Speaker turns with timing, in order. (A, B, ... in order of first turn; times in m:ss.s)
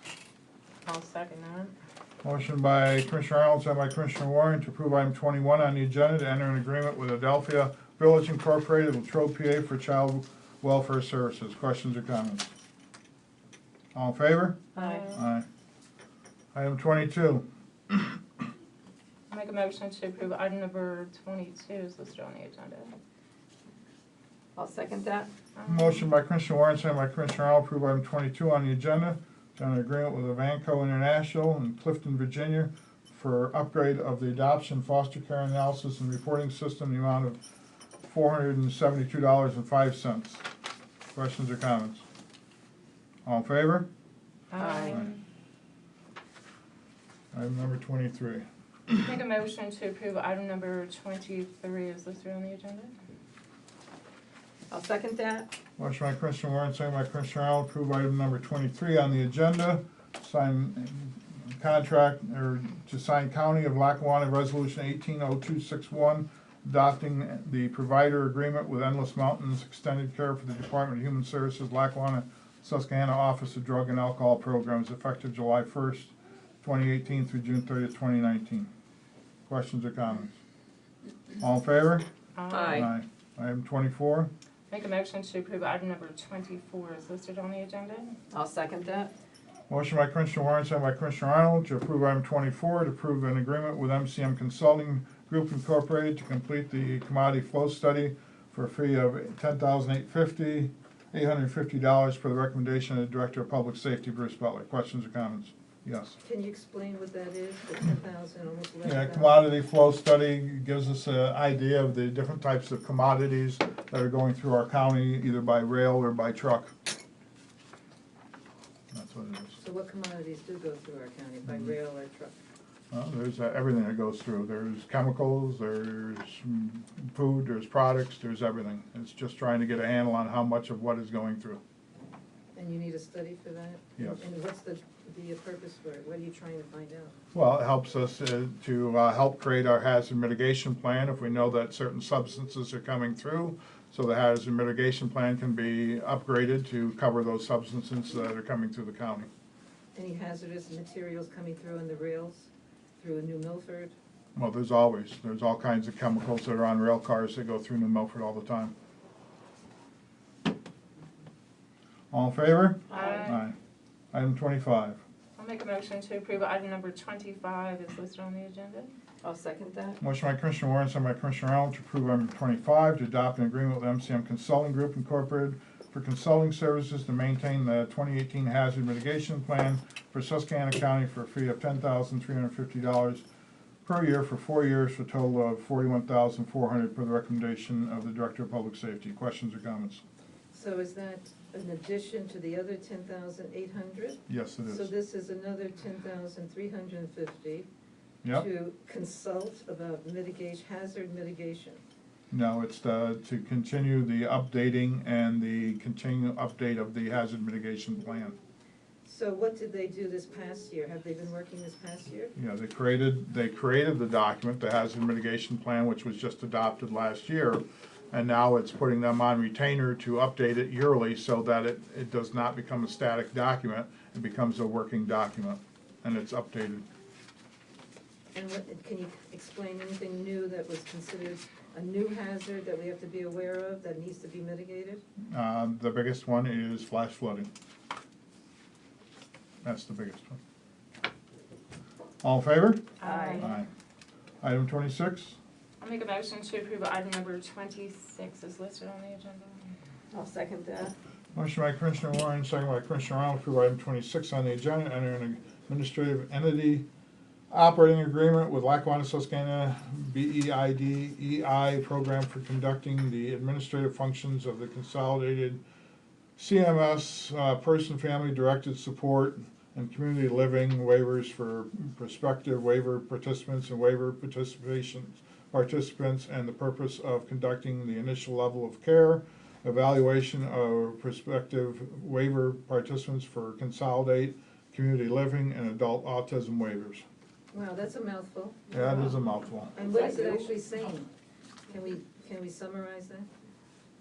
0:00.8-0:01.7 A
0:02.2-0:12.5 B
0:13.9-0:15.4 B
0:14.7-0:15.1 C
0:14.8-0:15.2 A
0:16.5-0:18.2 B
0:19.3-0:22.9 A
0:24.5-0:25.3 C
0:25.6-0:26.0 A
0:25.7-0:37.4 B
0:38.0-0:40.4 B
0:41.1-0:42.0 B
0:43.2-0:43.9 B
0:44.5-0:45.2 A
0:44.6-0:45.0 C
0:47.3-0:49.0 B
0:49.0-0:52.9 A
0:54.7-0:55.5 C
0:55.8-1:18.7 B
1:19.5-1:20.4 B
1:21.4-1:22.0 B
1:22.4-1:22.9 A
1:22.5-1:22.9 C
1:22.7-1:24.3 B
1:24.7-1:28.1 A
1:28.3-1:29.1 C
1:29.7-1:46.2 B
1:46.2-1:49.4 D
1:48.8-1:56.7 B
1:58.9-1:59.6 B
1:59.6-2:02.4 D
2:01.5-2:01.7 B
2:02.9-2:11.6 B
2:12.5-2:17.2 D
2:14.0-2:14.2 B
2:17.3-2:29.3 B
2:29.9-2:33.9 D
2:34.4-2:38.7 B
2:42.1-2:43.5 B
2:42.9-2:43.3 C
2:42.9-2:43.4 A
2:44.1-2:45.0 B
2:45.4-2:48.9 A
2:49.2-2:50.0 C
2:50.0-3:03.2 B
3:03.8-3:10.0 B
3:10.5-3:17.7 D
3:14.3-3:14.9 B
3:18.3-3:21.8 D
3:22.3-3:28.4 B
3:29.0-3:32.3 D
3:32.4-3:46.8 B
3:48.3-3:55.0 D
3:55.3-3:57.5 B
3:59.6-4:00.4 B
4:02.2-4:03.7 B
4:03.0-4:03.6 A
4:03.0-4:03.5 C
4:04.4-4:05.4 B
4:05.8-4:09.6 A
4:10.1-4:10.9 C
4:11.3-4:16.8 B
4:17.5-4:25.6 B
4:26.4-4:47.0 B
4:47.5-4:49.2 D
4:48.7-4:49.7 B
4:49.7-4:51.1 D
4:49.8-4:50.5 C
4:51.7-4:53.3 D